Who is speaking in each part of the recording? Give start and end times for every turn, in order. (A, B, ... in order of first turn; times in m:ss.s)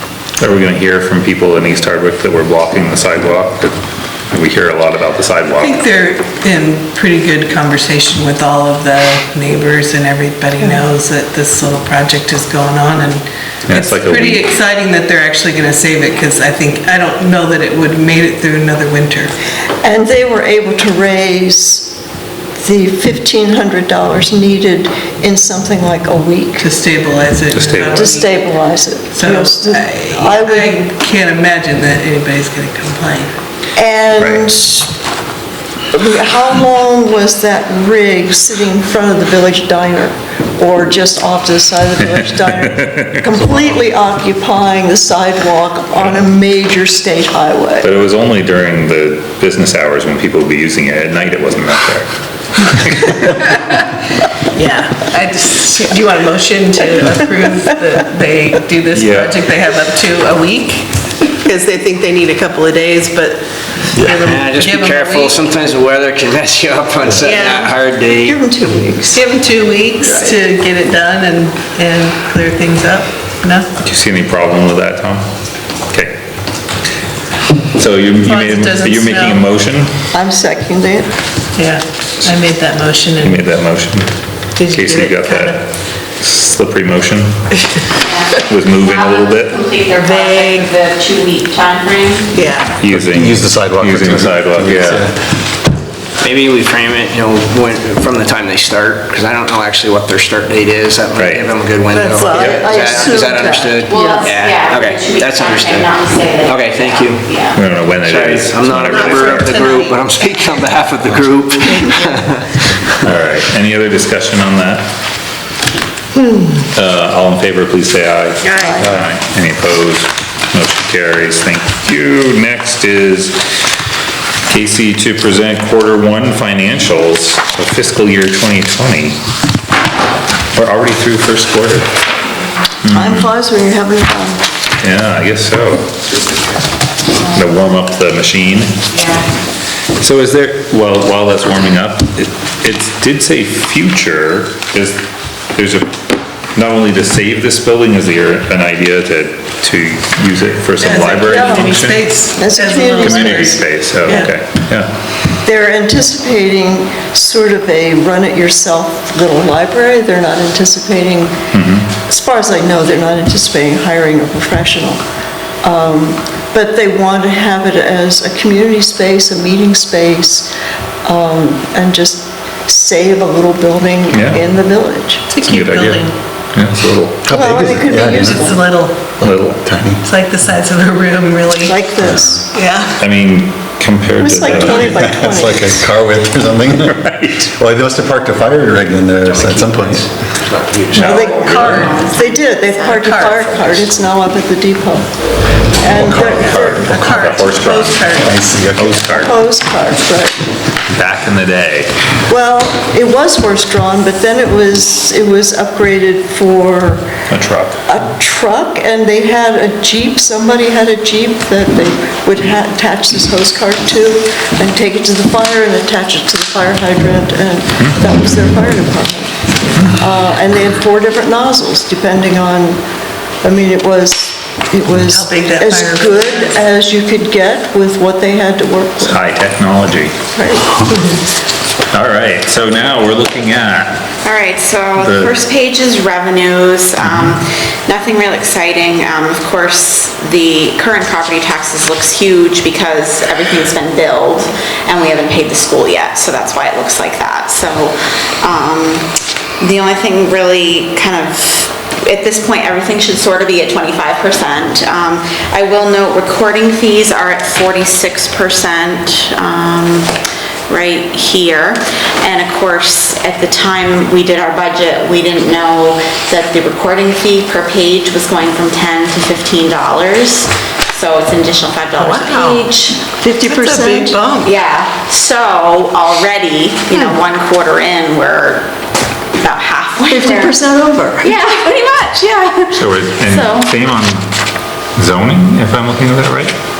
0:00.4-0:03.8 A
0:04.3-0:05.9 A
0:05.6-0:19.3 B
0:13.7-0:14.4 A
0:19.8-0:22.0 C
0:22.6-0:26.7 C
0:26.6-0:28.4 B
0:27.5-0:28.1 A
0:27.9-0:30.8 C
0:29.1-0:33.3 B
0:33.8-0:34.9 C
0:35.9-0:47.9 C
0:47.8-0:52.1 A
0:52.7-0:53.3 A
0:54.6-1:03.4 B
0:59.0-0:59.4 A
1:04.0-1:05.6 B
1:04.1-1:08.4 D
1:07.2-1:07.8 B
1:08.2-1:09.2 C
1:09.1-1:13.8 B
1:10.0-1:10.3 C
1:13.8-1:15.3 A
1:15.9-1:16.2 A
1:17.7-1:19.9 A
1:18.2-1:19.5 B
1:20.1-1:21.1 C
1:21.6-1:23.5 B
1:23.2-1:24.1 A
1:24.6-1:25.6 B
1:24.7-1:25.6 A
1:26.2-1:27.3 A
1:28.0-1:32.4 E
1:28.5-1:29.5 A
1:30.0-1:30.7 B
1:32.4-1:32.7 B
1:32.8-1:35.1 A
1:32.9-1:35.2 F
1:36.2-1:47.2 D
1:41.2-1:41.5 A
1:41.9-1:44.3 C
1:43.9-1:47.6 E
1:47.5-1:49.6 A
1:48.0-1:52.8 D
1:48.9-1:50.0 B
1:51.7-1:52.2 C
1:53.0-1:54.9 A
1:56.7-2:03.4 A
1:58.4-1:58.8 B
1:58.6-1:58.9 C
2:04.5-2:09.2 A
2:10.5-2:11.9 A
2:12.9-2:13.3 A
2:12.9-2:14.4 C
2:14.8-2:16.0 A
2:17.4-2:18.7 A
2:18.9-2:19.3 E
2:20.0-2:25.9 A
2:26.6-2:32.0 A
2:30.8-2:34.3 B
2:31.2-2:31.8 C
2:32.4-2:34.3 C
2:33.0-2:35.0 A
2:35.4-2:41.4 C
2:41.5-2:41.9 A
2:41.9-2:45.0 C
2:45.6-2:50.5 C
2:51.0-2:55.3 C
2:54.1-2:54.4 A
2:55.3-2:56.2 B
2:55.5-2:56.0 A
2:56.5-2:57.2 A
2:57.2-2:58.5 F
2:57.3-2:58.5 C
2:57.9-2:59.2 B
2:59.2-3:00.0 F
2:59.2-2:59.6 A
3:00.0-3:01.8 B
3:01.6-3:02.6 C
3:02.5-3:03.0 B
3:03.0-3:05.0 A
3:04.2-3:05.8 C
3:04.7-3:10.1 F
3:07.1-3:07.4 A
3:09.2-3:11.5 D
3:11.0-3:15.1 C
3:11.0-3:11.8 A
3:11.1-3:13.6 E
3:11.4-3:12.1 B
3:12.9-3:13.8 B
3:15.7-3:17.0 C
3:16.0-3:17.2 F
3:16.3-3:18.6 B
3:16.4-3:18.0 A
3:18.2-3:19.2 F
3:18.8-3:19.3 A
3:19.2-3:20.3 C
3:20.9-3:21.9 A
3:22.3-3:27.2 C
3:27.3-3:27.8 A
3:27.9-3:39.4 C
3:39.9-3:42.8 C
3:43.4-3:49.2 C
3:45.1-3:46.6 B
3:49.0-3:50.1 A
3:50.3-3:51.0 C
3:51.9-3:54.1 A
3:54.2-4:09.1 E
3:55.0-3:55.3 A
3:57.0-3:57.4 A
4:09.6-4:20.1 E
4:20.7-4:33.0 E
4:32.0-4:32.7 B
4:33.2-4:34.3 C
4:33.4-4:34.5 B
4:34.4-4:38.7 E
4:39.4-4:40.6 E
4:40.1-4:41.5 C
4:41.2-4:43.8 E
4:42.7-4:44.3 A
4:45.0-4:46.6 A